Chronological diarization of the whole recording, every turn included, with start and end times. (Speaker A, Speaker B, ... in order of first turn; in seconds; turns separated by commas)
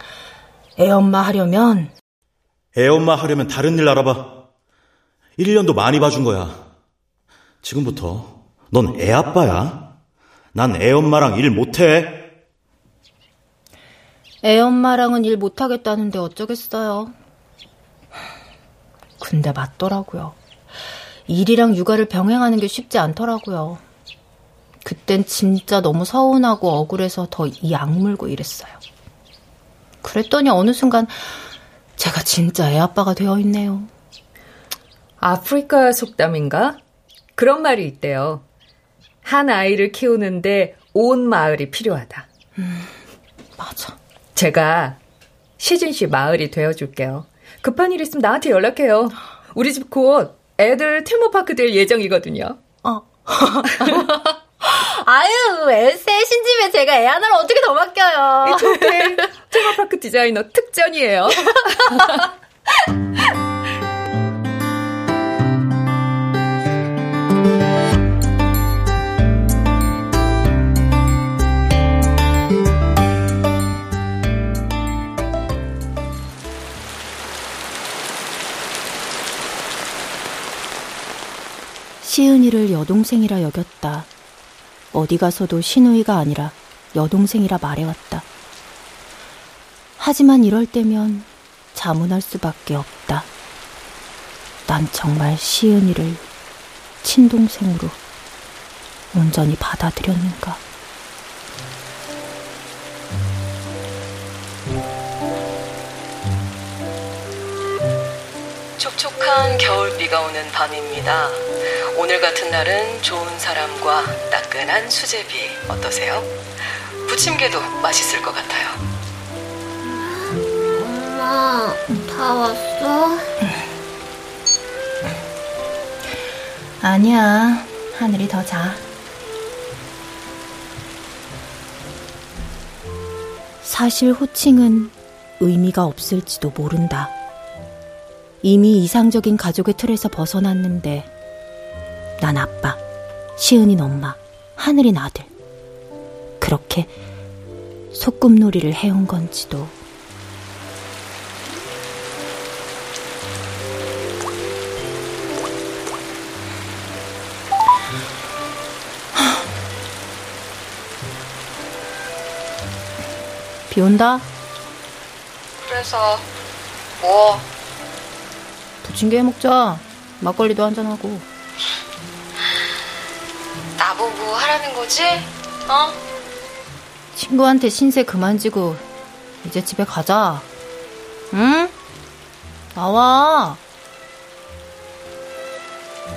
Speaker A: 0.8-1.9, Speaker B: 2.7-4.4, Speaker B: 5.4-6.7, Speaker B: 7.6-9.9, Speaker B: 10.5-12.3, Speaker A: 14.4-17.1, Speaker A: 19.2-20.4, Speaker A: 21.3-23.8, Speaker A: 24.8-28.8, Speaker A: 30.0-31.4, Speaker A: 32.0-33.9, Speaker C: 35.2-36.8, Speaker C: 37.4-38.4, Speaker C: 39.2-42.2, Speaker A: 42.5-43.0, Speaker A: 43.6-44.0, Speaker C: 44.3-45.0, Speaker C: 45.6-52.6, Speaker A: 52.8-59.2, Speaker C: 58.4-62.2, Speaker A: 82.0-84.1, Speaker A: 84.9-88.2, Speaker A: 90.0-93.3, Speaker A: 94.7-96.2, Speaker A: 97.0-98.0, Speaker A: 99.1-100.6, Speaker D: 108.8-116.3, Speaker D: 117.0-118.8, Speaker E: 120.0-123.3, Speaker A: 126.8-128.8, Speaker A: 133.6-137.1, Speaker A: 138.4-141.1, Speaker A: 142.2-142.8, Speaker A: 143.4-145.3, Speaker A: 146.4-146.9, Speaker A: 147.9-149.8, Speaker A: 163.7-164.3, Speaker F: 165.6-166.2, Speaker F: 167.0-167.4, Speaker A: 168.8-171.2, Speaker F: 173.8-176.0, Speaker A: 177.2-178.8, Speaker A: 179.4-180.5, Speaker A: 181.3-181.7, Speaker A: 182.7-183.6